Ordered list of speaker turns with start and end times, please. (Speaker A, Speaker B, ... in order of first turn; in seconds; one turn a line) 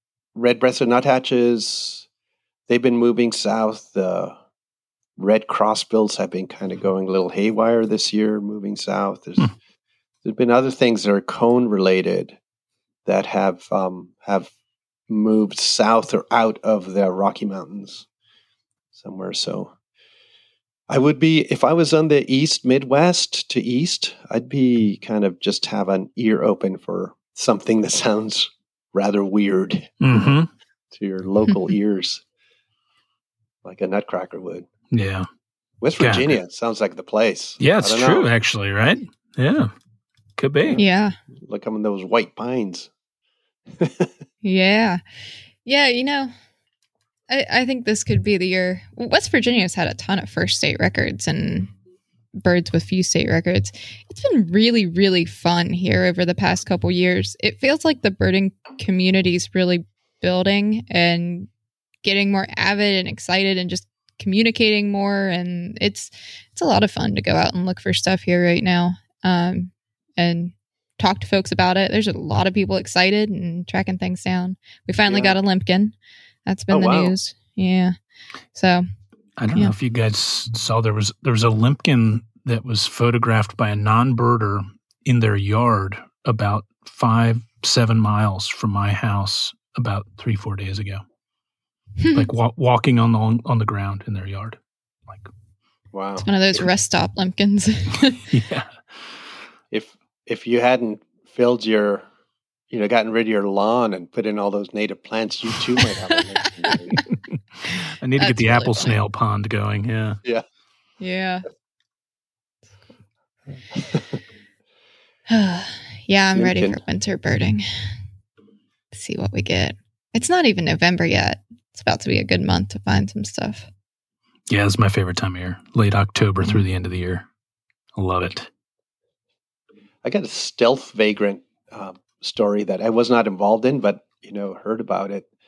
Speaker A: 0.3-2.1
Speaker A: 2.7-4.4
Speaker A: 5.2-9.5
Speaker A: 10.2-12.4
Speaker A: 13.1-14.5
Speaker A: 15.1-18.1
Speaker A: 18.9-19.7
Speaker A: 20.9-30.4
Speaker B: 30.0-30.5
Speaker A: 30.9-32.2
Speaker A: 33.6-34.7
Speaker B: 34.9-35.3
Speaker A: 35.8-38.3
Speaker B: 36.0-36.4
Speaker B: 37.6-39.7
Speaker B: 40.4-40.8
Speaker C: 40.8-41.2
Speaker A: 41.4-42.9
Speaker A: 43.7-44.1
Speaker C: 44.4-45.0
Speaker C: 45.6-46.3
Speaker C: 47.3-51.7
Speaker C: 52.4-61.5
Speaker C: 62.0-76.0
Speaker A: 75.1-75.4
Speaker C: 76.5-78.0
Speaker A: 76.7-77.2
Speaker C: 78.5-78.8
Speaker B: 79.4-91.0
Speaker C: 92.0-92.3
Speaker B: 92.1-95.3
Speaker A: 95.9-96.7
Speaker C: 96.2-98.2
Speaker B: 98.3-98.8
Speaker A: 99.7-102.0
Speaker A: 102.7-107.0
Speaker C: 106.4-107.0
Speaker C: 107.7-109.0
Speaker B: 108.0-110.2
Speaker C: 111.0-111.5
Speaker A: 113.7-114.2
Speaker C: 115.3-117.7
Speaker A: 116.3-116.8
Speaker C: 118.9-123.7
Speaker B: 124.5-127.2
Speaker B: 128.0-128.5
Speaker A: 130.0-135.3